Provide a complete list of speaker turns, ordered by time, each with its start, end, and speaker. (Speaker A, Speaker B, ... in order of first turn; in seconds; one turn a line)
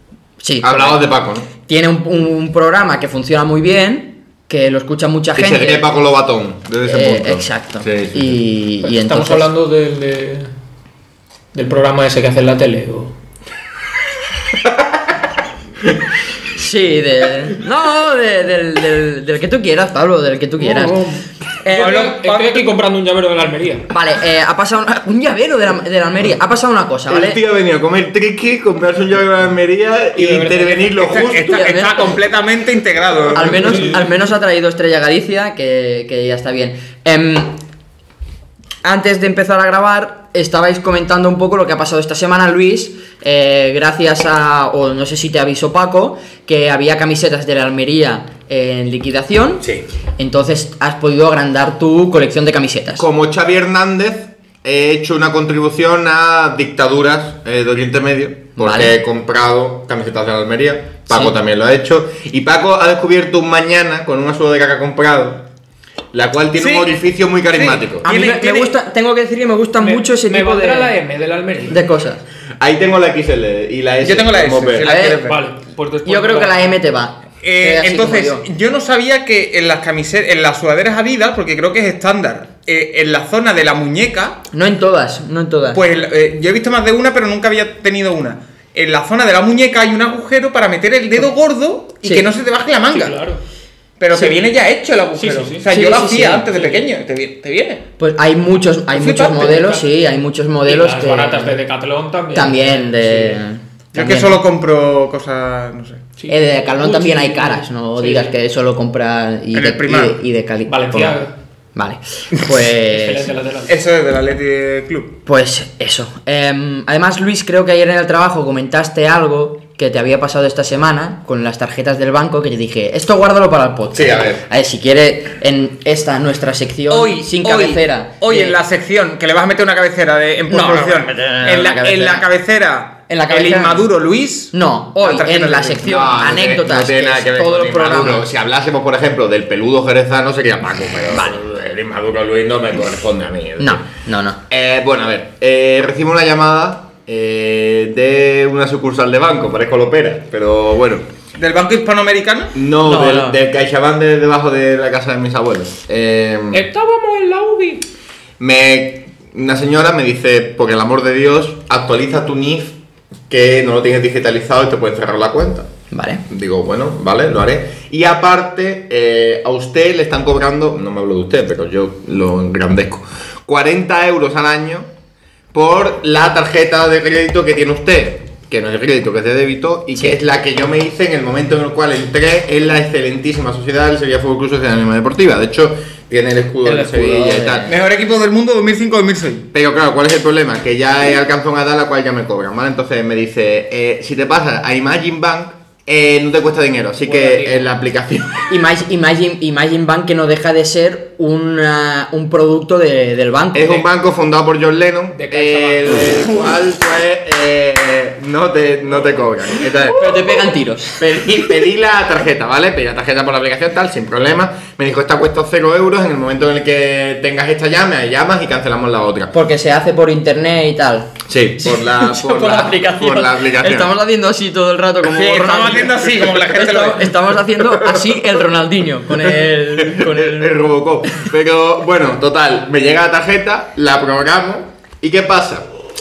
Speaker A: 0.4-1.0
Speaker B: 0.6-1.5
Speaker A: 1.7-5.8
Speaker B: 5.3-8.4
Speaker A: 6.8-9.5
Speaker C: 8.8-10.5
Speaker C: 11.5-13.1
Speaker A: 16.5-21.0
Speaker C: 20.6-23.9
Speaker D: 21.6-22.6
Speaker A: 23.9-27.4
Speaker B: 27.1-31.7
Speaker C: 30.1-30.9
Speaker D: 31.0-33.9
Speaker A: 31.4-32.1
Speaker A: 33.3-37.6
Speaker C: 33.7-34.0
Speaker A: 38.8-53.0
Speaker B: 53.0-65.5
Speaker A: 58.5-58.9
Speaker B: 66.1-68.1
Speaker D: 66.6-66.9
Speaker D: 67.5-68.7
Speaker A: 68.0-70.9
Speaker C: 69.8-71.8
Speaker A: 71.7-72.2
Speaker B: 72.6-74.9
Speaker D: 74.0-75.4
Speaker A: 74.8-75.2
Speaker C: 75.0-76.7
Speaker A: 76.0-78.4
Speaker D: 77.4-84.4
Speaker A: 84.5-85.8
Speaker D: 85.7-93.2
Speaker C: 92.9-93.4
Speaker D: 94.0-97.8
Speaker C: 95.2-95.6
Speaker A: 95.7-96.5
Speaker C: 96.5-96.8
Speaker A: 98.0-101.6
Speaker D: 98.9-99.8
Speaker C: 100.7-103.4
Speaker A: 102.3-104.4
Speaker D: 103.9-106.0
Speaker C: 106.2-108.3
Speaker A: 106.3-111.2
Speaker D: 109.5-110.2
Speaker C: 110.7-111.3
Speaker A: 111.8-113.3
Speaker C: 112.7-113.7
Speaker D: 113.7-115.1
Speaker A: 115.2-128.6
Speaker B: 123.9-124.4
Speaker D: 126.9-135.9
Speaker A: 130.5-132.2
Speaker A: 133.1-133.8
Speaker A: 134.5-138.3
Speaker B: 135.8-143.8
Speaker A: 141.1-141.4
Speaker A: 143.6-144.4
Speaker B: 144.5-151.1
Speaker D: 151.3-152.5
Speaker B: 152.5-156.7
Speaker A: 152.8-153.4
Speaker C: 156.5-157.9
Speaker B: 158.4-162.8
Speaker B: 163.3-165.7
Speaker A: 165.9-166.2
Speaker B: 166.3-174.9
Speaker B: 175.5-187.7
Speaker C: 186.7-187.1
Speaker A: 186.7-187.7
Speaker D: 187.7-189.5
Speaker B: 189.5-198.4
Speaker C: 197.0-197.7
Speaker A: 198.5-203.9
Speaker B: 203.5-210.4
Speaker C: 205.1-206.2
Speaker A: 209.9-211.0
Speaker B: 211.0-219.3
Speaker A: 219.3-231.3
Speaker B: 221.3-223.9
Speaker D: 225.0-227.1
Speaker B: 227.7-228.3
Speaker B: 229.2-235.7